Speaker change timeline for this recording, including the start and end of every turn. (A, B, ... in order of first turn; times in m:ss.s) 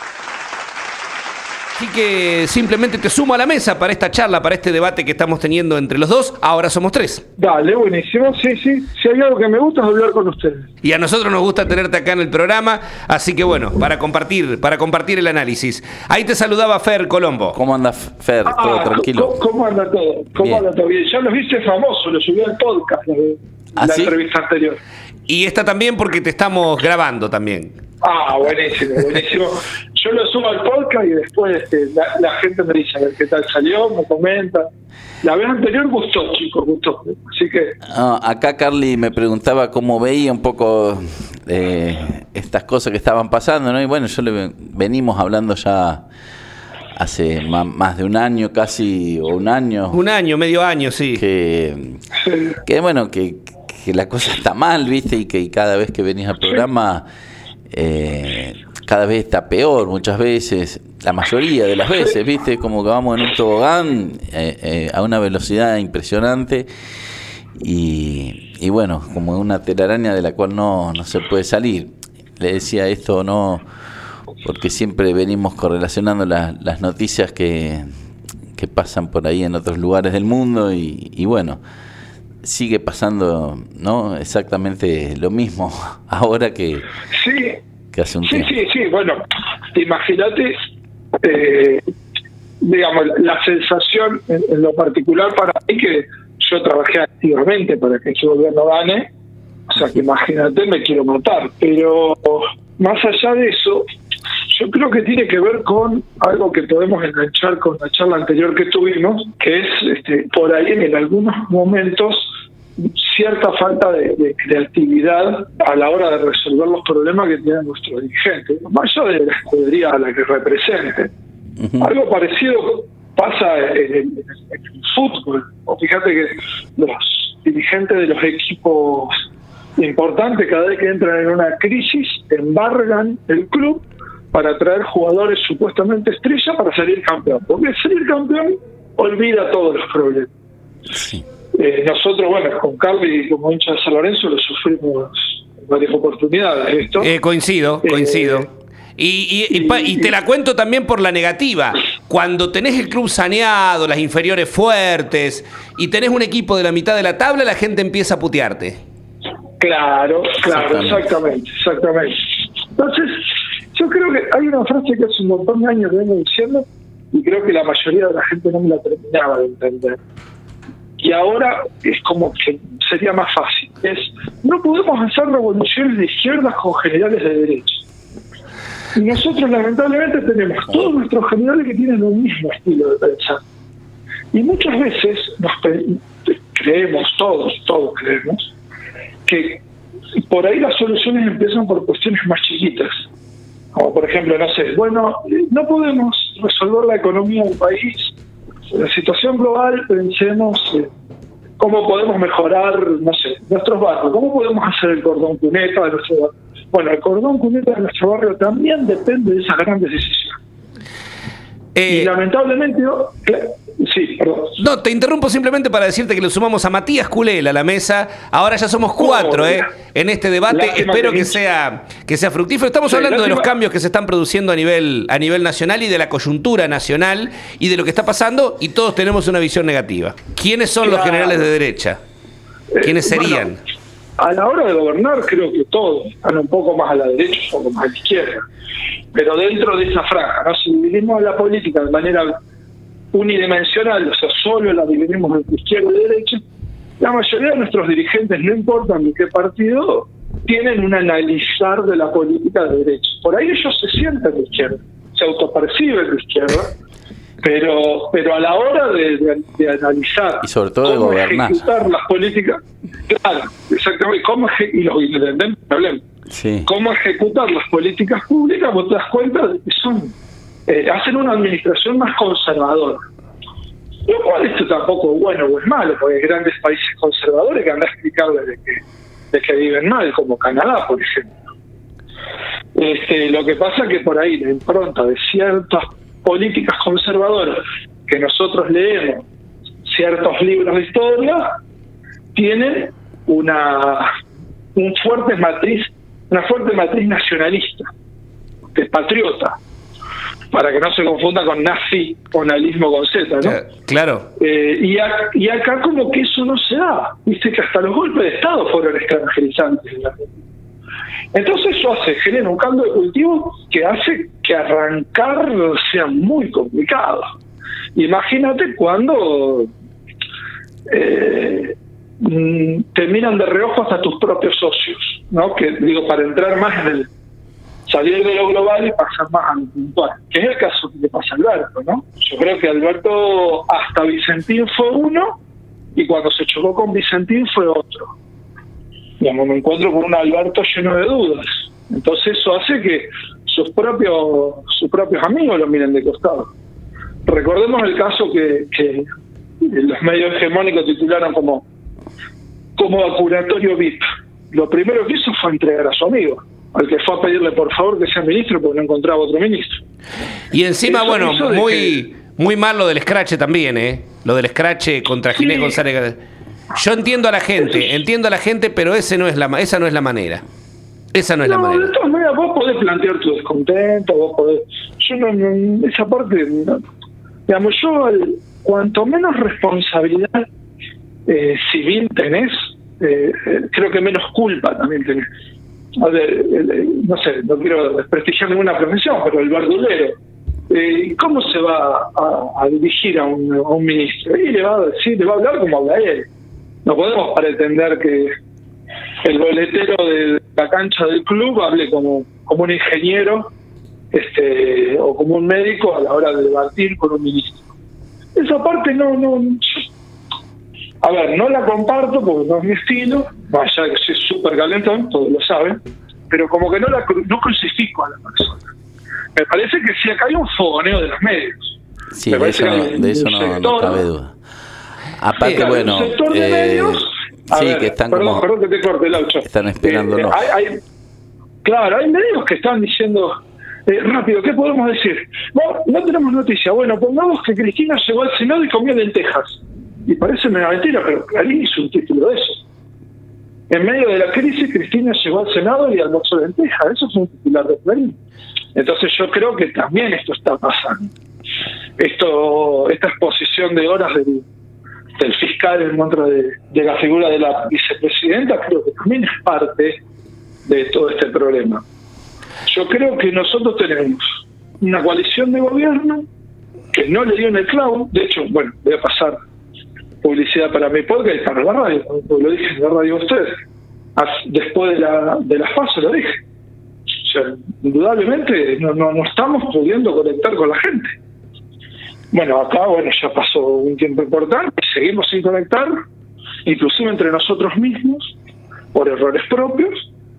0:01.8-0:07.2 A
0:07.4-0:10.7 B
0:10.8-0:17.6 A
0:17.5-0:19.4 C
0:18.4-0:24.8 B
0:20.4-0:20.6 C
0:23.8-0:24.1 C
0:25.3-0:27.7 A
0:28.0-0:34.7 B
0:35.2-0:37.8 B
0:37.9-0:46.0 C
0:46.9-0:50.0 C
0:49.9-0:51.2 A
0:51.1-0:52.0 C
0:52.2-0:52.6 B
0:52.6-0:57.0 C
0:57.7-1:06.7 C
1:07.6-1:13.6 C
1:14.4-1:17.9 C
1:18.5-1:21.6 C
1:22.4-1:26.9 C
1:27.1-1:27.6 B
1:27.9-1:28.5 C
1:28.2-1:29.2 B
1:29.7-1:30.6 B
1:31.2-1:31.8 B
1:32.6-1:39.1 B
1:39.7-1:43.9 B
1:44.5-2:01.1 B
2:01.8-2:09.2 B
2:09.8-2:20.3 B
2:20.9-2:21.2 C
2:21.6-2:27.1 B
2:27.0-2:38.8 A
2:27.8-2:28.5 B
2:29.5-2:30.1 B
2:39.6-2:50.0 B
2:40.4-2:41.1 C
2:51.0-2:57.8 B
2:58.9-3:03.4 B
3:04.3-3:08.5 B
3:09.2-3:09.6 B
3:10.1-3:13.0 B
3:13.7-3:18.1 B
3:18.7-3:20.9 B
3:21.6-3:30.4 B
3:31.8-3:32.1 A
3:31.9-3:34.6 B
3:34.6-3:52.0 A
3:39.0-3:39.7 B
3:40.5-3:41.4 B
3:42.9-3:43.5 B
3:50.8-3:51.5 B
3:52.7-3:53.5 B
3:52.8-3:53.6 A
3:54.2-3:58.4 B
3:59.1-4:02.3 B
4:03.1-4:06.4 B
4:07.0-4:16.7 B
4:17.4-4:26.0 B
4:20.4-4:21.6 C
4:26.3-4:26.7 C
4:26.6-4:30.1 B
4:30.7-4:33.0 B
4:34.1-4:41.4 B
4:42.7-4:49.2 B
4:49.8-4:51.5 B
4:52.3-4:54.1 B
4:54.7-4:57.9 B
4:58.7-4:59.6 B
5:00.5-5:03.6 B
5:03.4-5:04.2 A
5:04.4-5:10.4 B
5:11.3-5:17.3 B
5:17.9-5:19.7 B
5:20.9-5:27.1 B
5:27.8-5:35.3 B
5:35.9-5:38.1 B
5:39.2-5:46.5 B
5:47.2-5:49.1 B
5:49.6-5:51.6 B
5:52.8-5:59.8 B
6:00.5-6:06.2 A
6:00.9-6:02.0 B
6:05.4-6:05.8 B
6:06.7-6:10.4 A
6:07.6-6:07.9 B
6:11.1-6:11.9 A
6:11.4-6:16.8 B
6:17.5-6:20.4 B
6:21.3-6:25.2 B
6:26.0-6:30.1 B
6:30.7-6:36.3 B
6:36.8-6:38.3 B
6:39.2-6:43.5 B
6:44.1-6:47.7 B
6:48.3-6:49.9 B
6:51.0-6:58.6 B
6:59.3-7:04.0 B
7:02.1-7:04.3 C
7:05.2-7:08.4 C
7:05.4-7:10.8 B
7:09.4-7:10.4 C
7:11.6-7:13.3 B
7:13.8-7:22.6 B
7:23.7-7:28.2 B
7:28.7-7:31.1 B
7:32.0-7:34.4 B
7:35.2-7:40.0 B
7:40.6-7:41.8 B
7:42.7-7:44.2 B
7:44.8-7:46.2 B
7:46.9-7:49.4 B
7:50.2-7:53.6 B
7:54.2-7:56.4 B
7:57.2-8:01.1 B
8:02.3-8:05.9 B
8:06.6-8:08.3 B
8:08.9-8:10.0 B